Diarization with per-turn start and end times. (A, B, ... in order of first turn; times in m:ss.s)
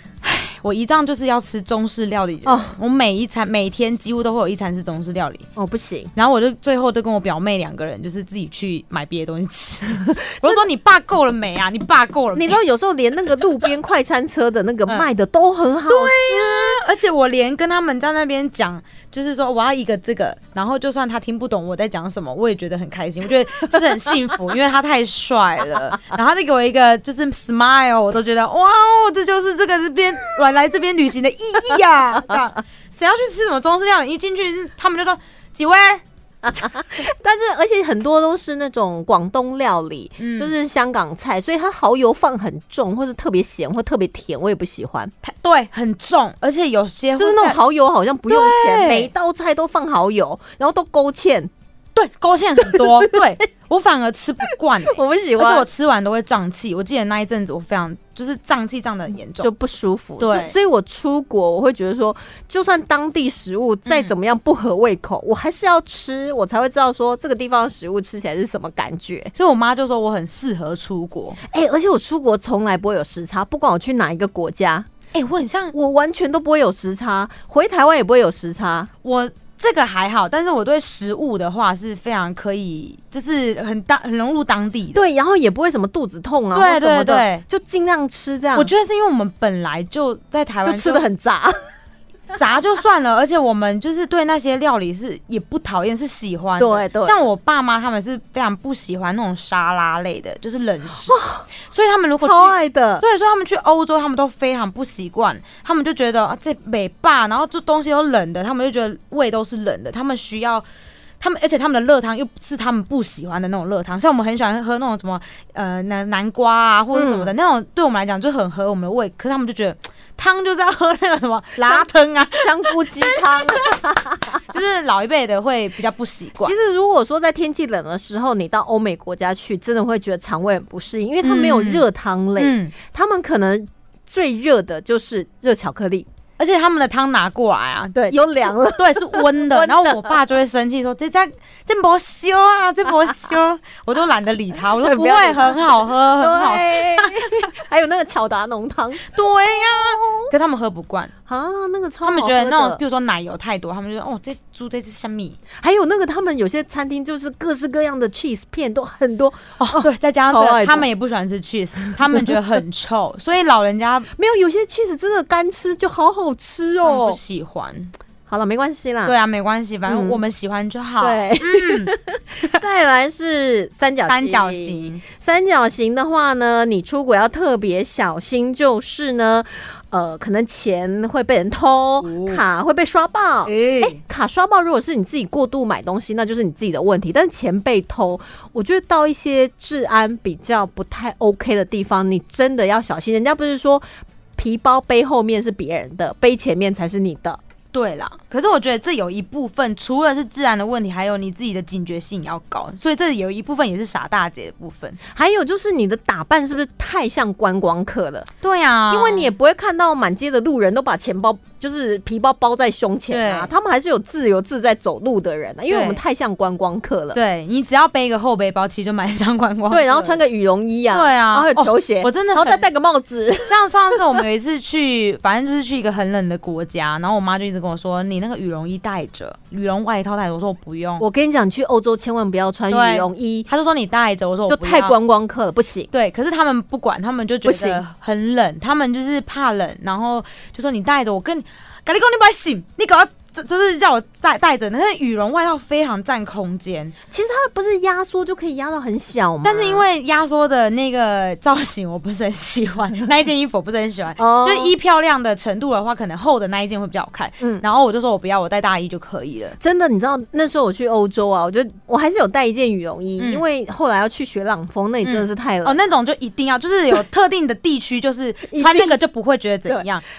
0:00.2-0:05.4 A
0:02.4-0:02.7 B
0:05.6-0:06.1 B
0:06.1-0:12.6 A
0:10.3-0:10.6 B
0:12.3-0:16.8 B
0:15.9-0:36.0 A
0:36.4-0:45.1 B
0:40.2-0:40.5 A
0:45.2-0:47.6 A
0:47.2-0:51.5 B
0:48.3-0:49.1 A
0:51.9-0:59.5 A
0:52.6-0:53.2 B
0:54.4-0:55.6 B
0:59.4-1:09.3 B
1:00.2-1:00.5 A
1:03.9-1:04.1 A
1:09.3-1:11.4 A
1:11.5-1:14.9 B
1:15.1-1:15.7 A
1:15.7-1:18.9 B
1:19.0-1:25.0 A
1:24.9-1:28.7 B
1:26.5-1:27.4 A
1:28.5-1:31.0 A
1:30.6-1:31.5 B
1:32.3-1:50.6 A
1:36.6-1:37.2 B
1:41.0-1:41.5 B
1:42.2-1:43.0 B
1:51.2-2:03.8 A
1:56.9-1:57.3 B
2:01.6-2:04.4 B
2:04.5-2:06.5 A
2:06.4-2:16.0 B
2:11.2-2:11.8 A
2:12.4-2:12.7 A
2:16.4-2:27.5 A
2:17.9-2:20.2 B
2:24.8-2:30.3 B
2:29.0-2:31.1 A
2:31.3-2:32.8 B
2:32.0-2:35.4 A
2:35.6-2:40.9 B
2:39.6-2:44.1 A
2:41.8-2:42.4 B
2:44.1-2:47.2 B
2:46.8-2:47.9 A
2:48.3-2:49.2 B
2:49.0-2:51.9 A
2:49.9-2:50.2 B
2:51.0-3:13.8 B
2:54.0-2:55.0 A
3:02.0-3:02.4 A
3:03.4-3:04.0 A
3:14.4-3:17.4 B
3:17.7-3:25.0 A
3:25.1-3:28.3 B
3:28.4-3:29.3 A
3:28.9-3:37.2 B
3:33.1-3:33.5 A
3:35.7-3:36.0 A
3:37.1-3:40.2 A
3:39.7-3:44.0 B
3:40.9-3:42.6 A
3:43.4-3:51.0 A
3:51.0-3:53.5 B
3:52.7-3:55.0 A
3:54.5-3:55.9 B
3:55.9-4:06.9 A
3:57.4-3:57.8 B
4:07.1-4:09.8 B
4:09.4-4:19.6 A
4:14.2-4:14.7 B
4:19.6-4:25.8 B
4:23.2-4:23.4 A
4:25.0-4:30.0 A
4:28.5-4:29.0 B